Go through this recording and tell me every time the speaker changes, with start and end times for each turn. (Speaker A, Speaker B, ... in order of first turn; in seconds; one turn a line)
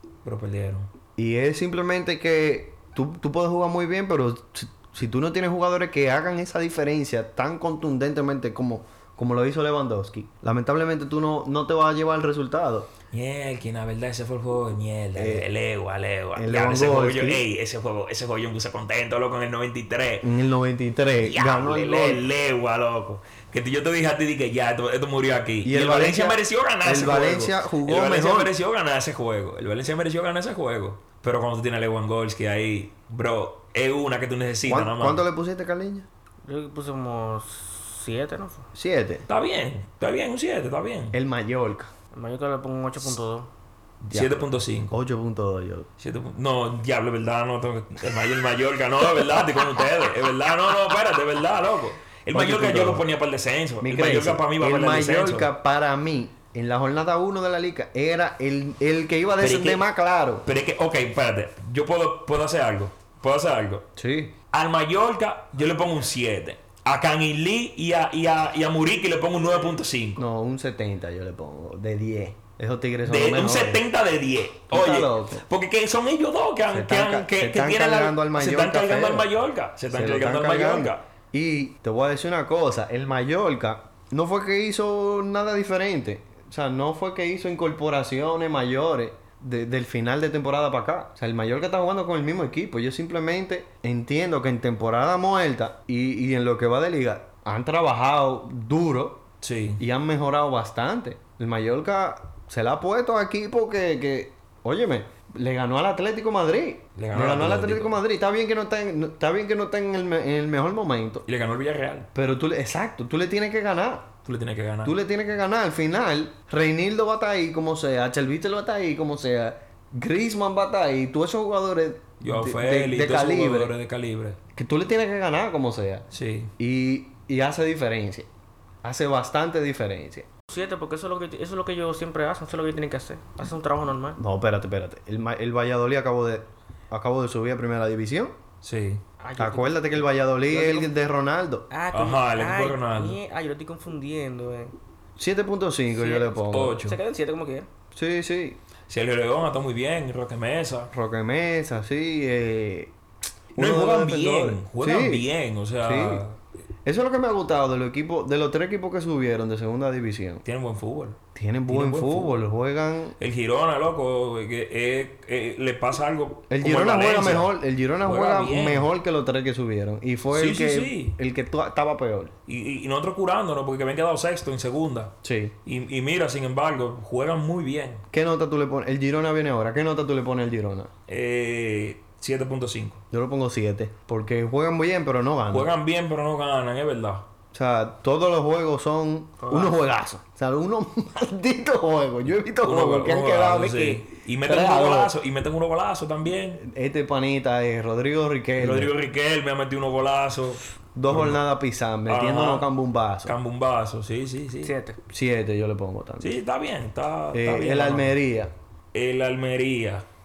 Speaker A: 0.2-0.9
Speaker B: 1.2-12.9
Speaker A: 13.1-20.3
Speaker B: 15.2-15.5
Speaker B: 16.4-17.4
Speaker B: 20.2-22.3
Speaker A: 21.2-35.2
Speaker B: 25.6-28.5
Speaker B: 34.7-36.1
Speaker C: 36.4-38.7
Speaker B: 38.7-39.3
Speaker A: 39.3-41.1
Speaker B: 41.1-41.9
Speaker C: 42.1-43.5
Speaker A: 44.0-44.9
Speaker B: 44.1-45.9
Speaker A: 46.0-55.5
Speaker B: 52.3-53.1
Speaker B: 53.8-60.5
Speaker A: 59.4-59.8
Speaker A: 60.4-63.8
Speaker B: 64.0-64.3
Speaker A: 64.5-70.2
Speaker B: 70.2-73.8
Speaker A: 73.0-81.0
Speaker B: 74.7-75.4
Speaker B: 76.7-79.3
Speaker B: 79.9-99.2
Speaker A: 99.4-99.8
Speaker B: 99.8-111.2
Speaker A: 107.0-108.0
Speaker A: 111.2-112.1
Speaker B: 112.1-114.1
Speaker A: 114.2-114.9
Speaker B: 114.8-123.7
Speaker A: 122.2-124.4
Speaker B: 124.5-126.0
Speaker A: 126.1-126.5
Speaker B: 126.6-128.3
Speaker B: 128.8-130.3
Speaker C: 130.5-134.2
Speaker B: 134.2-138.3
Speaker A: 138.6-139.0
Speaker C: 139.2-140.9
Speaker B: 139.4-141.7
Speaker C: 141.7-144.8
Speaker A: 141.9-143.2
Speaker B: 145.2-146.9
Speaker C: 145.9-147.7
Speaker A: 146.5-147.0
Speaker B: 147.9-148.6
Speaker A: 148.9-150.9
Speaker B: 150.9-152.9
Speaker B: 153.5-155.2
Speaker A: 153.6-156.4
Speaker B: 155.8-156.2
Speaker B: 156.8-160.4
Speaker A: 160.4-162.4
Speaker B: 161.3-163.2
Speaker A: 163.2-168.9
Speaker B: 166.5-172.3
Speaker A: 170.3-171.2
Speaker A: 172.5-175.1
Speaker B: 175.2-175.5
Speaker A: 175.6-178.0
Speaker B: 178.1-180.9
Speaker A: 181.1-183.0
Speaker B: 183.1-185.7
Speaker A: 185.5-187.2
Speaker B: 187.5-195.1
Speaker C: 189.4-189.8
Speaker A: 192.6-196.6
Speaker B: 196.6-198.9
Speaker A: 198.6-201.4
Speaker B: 200.9-203.4
Speaker A: 202.1-202.7
Speaker A: 203.2-204.7
Speaker C: 204.6-205.0
Speaker B: 205.1-206.3
Speaker A: 206.2-208.2
Speaker B: 207.3-208.5
Speaker A: 208.9-210.0